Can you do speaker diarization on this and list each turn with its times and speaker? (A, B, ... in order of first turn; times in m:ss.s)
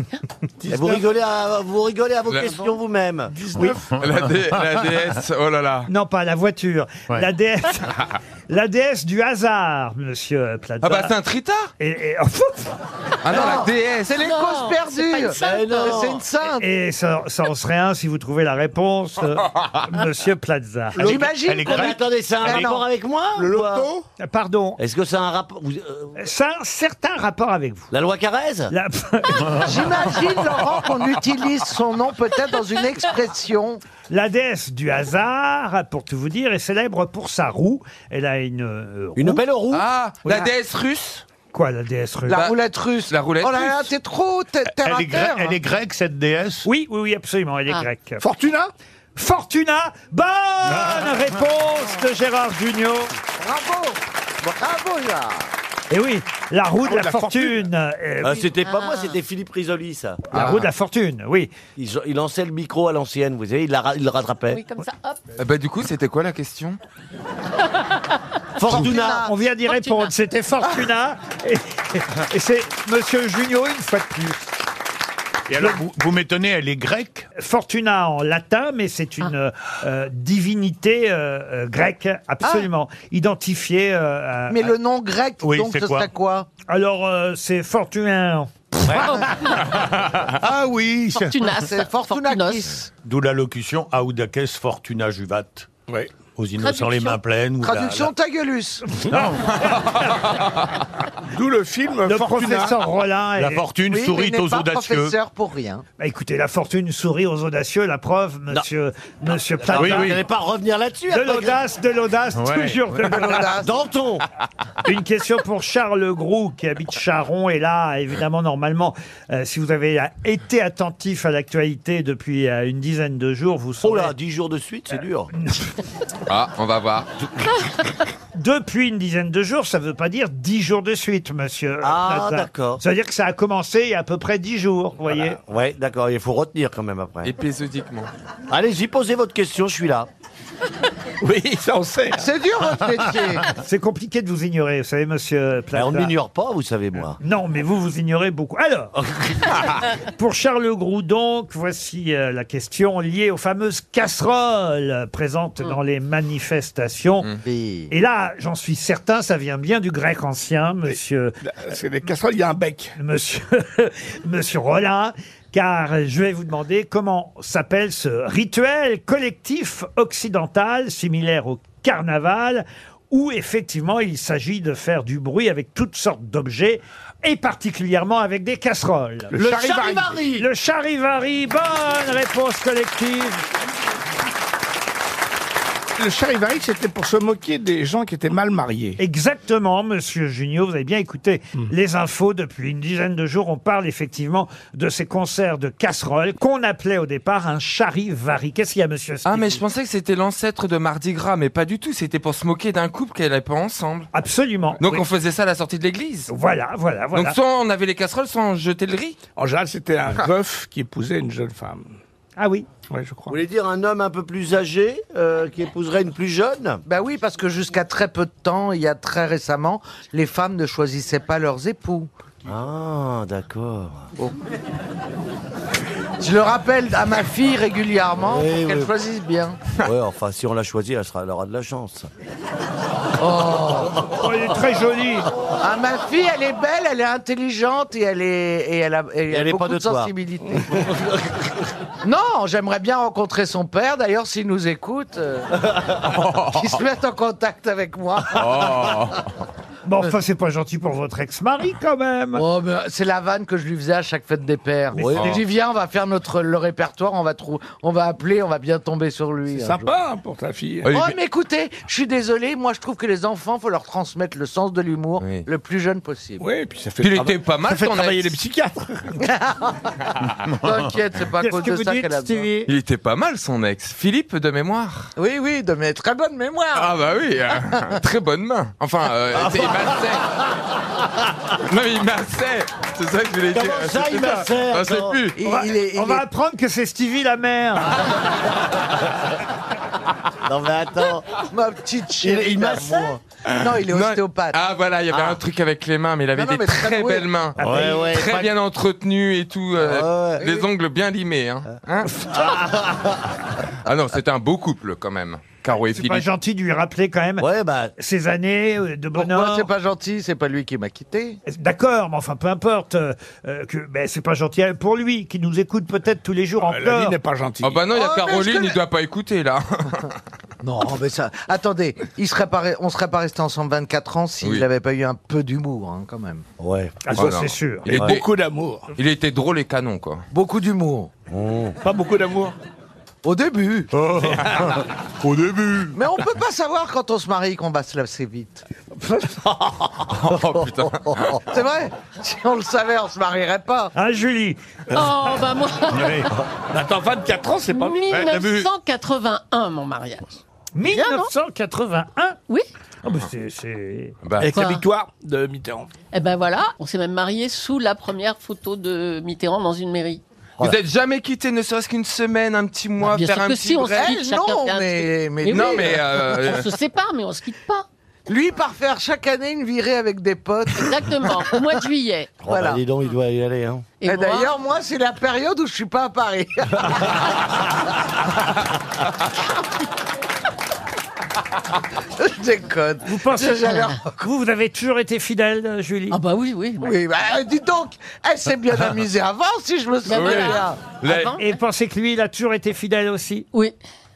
0:00.6-0:01.0 A
0:00.7-0:03.3 B
0:03.3-0:03.9 A
0:03.7-0:04.8 C
0:04.0-0:05.9 D
0:05.9-0:11.1 E
0:10.8-0:11.7 D
0:11.8-0:12.7 E
0:13.2-0:14.2 D
0:13.3-0:13.7 B
0:13.3-0:16.7 F
0:14.1-0:16.1 G
0:15.4-0:16.2 B
0:16.6-0:21.1 E
0:21.0-0:22.9 F
0:21.0-0:21.3 A
0:21.2-0:22.0 C
0:21.7-0:23.9 B
0:23.4-0:24.1 A
0:24.2-0:24.8 E
0:24.8-0:26.2 B
0:26.2-0:27.9 E
0:27.9-0:28.7 B
0:28.7-0:29.7 E
0:29.6-0:33.8 F
0:34.1-0:39.4 E
0:39.2-0:39.8 B
0:39.7-0:41.2 D
0:41.5-0:42.4 E
0:42.3-0:45.6 F
0:42.3-0:42.6 D
0:43.1-0:43.9 D
0:44.8-0:46.7 C
0:46.6-0:48.2 E
0:48.2-0:48.7 A
0:49.2-0:53.1 E
0:50.8-0:51.1 C
0:53.4-0:55.5 F
0:55.9-0:58.5 E
0:56.8-0:57.6 A
0:58.2-1:00.4 B
0:58.6-0:59.2 G
1:00.3-1:01.5 E
1:01.8-1:04.6 B
1:04.5-1:05.2 G
1:05.4-1:06.8 D
1:08.6-1:09.3 B
1:08.7-1:09.3 F
1:08.7-1:14.4 E
1:09.7-1:10.1 G
1:15.5-1:17.3 C
1:17.4-1:24.7 E
1:24.5-1:26.5 F
1:25.4-1:26.1 C
1:26.7-1:28.5 E
1:28.9-1:31.4 C
1:31.1-1:32.7 G
1:31.5-1:32.9 F
1:33.0-1:35.7 C
1:35.9-1:36.2 A
1:36.3-1:38.1 C
1:36.6-1:37.2 G
1:37.6-1:38.9 F
1:39.1-1:39.6 C
1:41.3-1:42.8 A
1:42.1-1:43.6 E
1:43.4-1:45.2 C
1:43.9-1:45.8 F
1:46.0-1:50.2 E
1:49.6-1:51.6 B
1:49.7-1:50.2 C
1:51.1-1:53.5 E
1:52.4-1:52.9 C
1:53.0-1:53.8 F
1:53.6-1:54.2 B
1:54.8-2:04.1 E
2:03.8-2:05.3 B
2:05.4-2:05.7 E
2:06.3-2:07.1 D
2:08.4-2:15.4 E
2:11.8-2:12.8 B
2:15.4-2:17.3 B
2:17.2-2:18.1 D
2:18.5-2:20.1 B
2:21.2-2:22.3 A
2:22.2-2:23.5 F
2:23.6-2:26.1 E
2:25.7-2:27.2 B
2:27.2-2:29.0 E
2:29.0-2:29.5 B
2:30.1-2:37.3 E
2:37.4-2:37.9 F
2:37.9-2:41.3 E
2:41.4-2:43.0 A
2:43.0-2:59.4 E
2:59.3-3:00.2 A
2:59.4-3:00.5 B
3:00.3-3:03.4 E
3:06.0-3:09.0 A
3:09.0-3:19.6 E
3:19.3-3:24.1 D
3:24.1-3:25.1 E
3:24.8-3:26.3 D
3:26.3-3:27.4 E
3:27.1-3:29.2 D
3:29.4-3:31.9 A
3:32.4-3:32.7 E
3:32.9-3:33.4 A
3:33.3-3:36.8 B
3:36.9-3:42.1 F
3:42.4-3:44.1 B
3:46.2-3:49.6 F
3:48.2-3:48.9 B
3:49.8-3:52.1 B
3:53.2-3:54.1 F
3:54.2-3:55.3 E
3:55.6-4:00.9 F
3:59.3-4:00.1 B
4:00.7-4:01.5 B
4:02.0-4:08.9 F
4:06.1-4:06.8 D
4:08.3-4:09.3 D
4:09.8-4:12.4 E
4:12.4-4:19.9 F
4:15.0-4:15.4 E
4:15.0-4:15.4 B
4:19.5-4:20.9 A
4:20.8-4:21.1 D
4:20.9-4:26.4 F
4:25.2-4:25.4 D
4:26.4-4:29.2 A
4:27.0-4:28.4 D
4:29.2-4:29.8 F
4:30.4-4:30.9 C
4:30.6-4:32.5 F
4:31.4-4:32.7 E
4:32.7-4:35.1 D
4:35.2-4:36.9 F
4:36.7-4:40.3 D
4:39.4-4:40.3 B
4:41.6-4:45.4 D
4:43.5-4:45.2 B
4:45.4-4:46.2 F
4:45.4-4:48.1 E
4:50.4-4:51.3 B
4:51.5-4:54.6 F
4:52.2-4:53.2 B
4:53.5-5:02.3 D
4:55.1-4:55.4 B
4:56.3-4:57.3 F
4:57.6-4:58.5 B
4:59.8-5:00.5 B
5:02.3-5:03.3 B
5:03.8-5:06.3 D
5:05.9-5:09.7 E
5:07.4-5:07.9 B
5:09.1-5:11.4 F
5:11.5-5:17.2 E
5:16.6-5:17.8 A
5:17.6-5:20.1 D
5:17.9-5:18.8 F
5:20.6-5:26.4 F
5:26.6-5:27.1 B
5:27.1-5:28.0 E
5:27.1-5:28.3 D
5:27.9-5:28.9 A
5:29.0-5:30.2 D
5:30.3-5:31.1 F
5:31.3-5:31.8 B
5:31.8-5:32.6 A
5:33.2-5:33.9 F
5:34.0-5:36.0 C
5:35.9-5:38.6 F
5:39.4-5:41.4 B
5:40.1-5:41.4 D
5:41.5-5:43.9 F
5:44.0-5:45.4 E
5:44.9-5:46.3 G
5:45.9-5:46.3 C
5:46.7-5:48.1 A
5:47.7-5:51.3 G
5:48.1-5:48.7 C
5:50.7-5:52.4 E
5:53.0-5:54.2 E
5:54.2-5:54.5 D
5:54.4-5:55.9 A
5:54.5-5:54.8 G
5:56.1-6:00.2 G
6:00.6-6:04.1 D
6:03.0-6:07.9 G
6:03.9-6:06.1 F
6:05.5-6:06.7 D
6:08.3-6:11.6 F
6:10.8-6:12.4 G
6:12.4-6:13.9 B
6:12.4-6:12.8 F
6:14.0-6:14.5 G
6:14.0-6:17.3 F
6:22.2-6:24.0 F
6:23.0-6:26.2 E
6:26.1-6:27.0 G
6:26.8-6:30.8 F
6:30.1-6:31.5 G
6:30.1-6:31.3 D
6:31.4-6:33.5 E